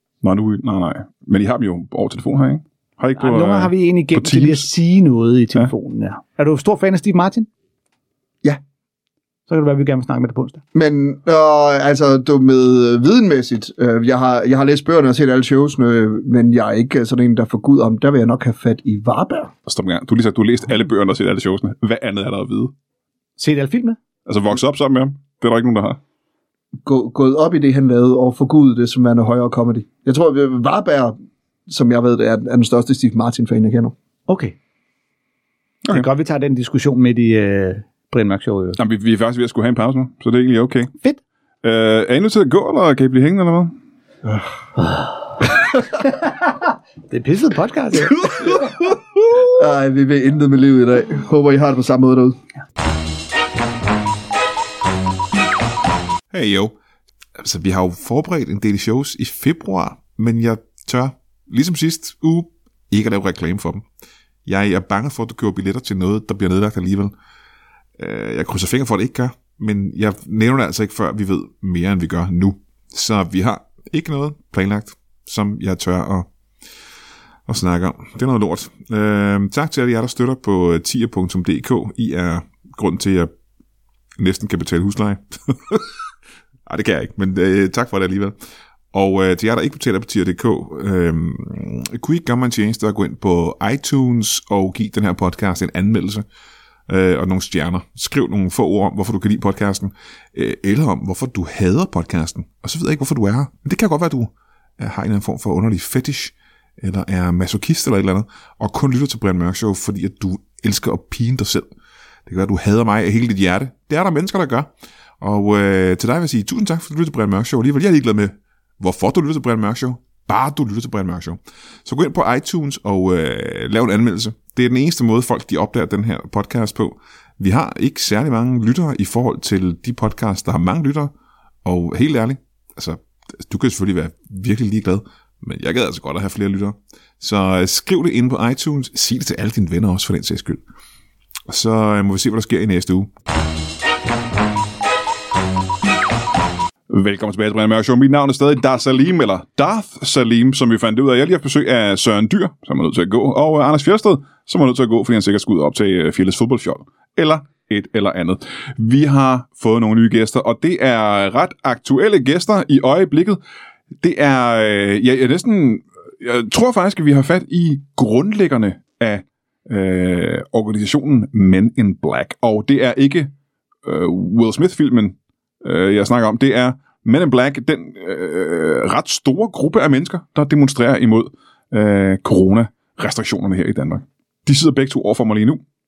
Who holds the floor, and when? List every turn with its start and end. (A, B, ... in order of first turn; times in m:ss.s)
0:00.2-0:04.7 A
0:03.2-0:07.5 B
0:09.5-0:10.6 B
0:10.7-0:19.5 C
0:19.7-0:22.7 A
0:23.4-0:24.0 B
0:24.3-0:26.0 A
0:26.8-0:31.2 C
0:31.7-0:34.0 C
0:34.3-0:34.6 B
0:35.9-0:38.8 B
0:38.8-0:40.9 A
0:41.6-0:43.7 A
0:44.8-0:45.1 B
0:46.0-0:46.4 B
0:47.1-0:48.6 B
0:49.4-0:52.4 C
0:56.3-0:56.8 D
0:57.4-1:03.8 D
1:04.4-1:07.1 D
1:08.0-1:16.3 D
1:17.5-1:23.3 D
1:24.2-1:25.9 D
1:26.7-1:28.4 D
1:28.9-1:36.2 D
1:36.9-1:51.7 D
1:52.3-1:54.7 D
1:55.2-2:11.1 D
2:11.6-2:20.6 D
2:21.5-2:23.1 D
2:26.9-2:43.4 A
2:44.0-2:53.3 A
2:53.8-3:05.6 A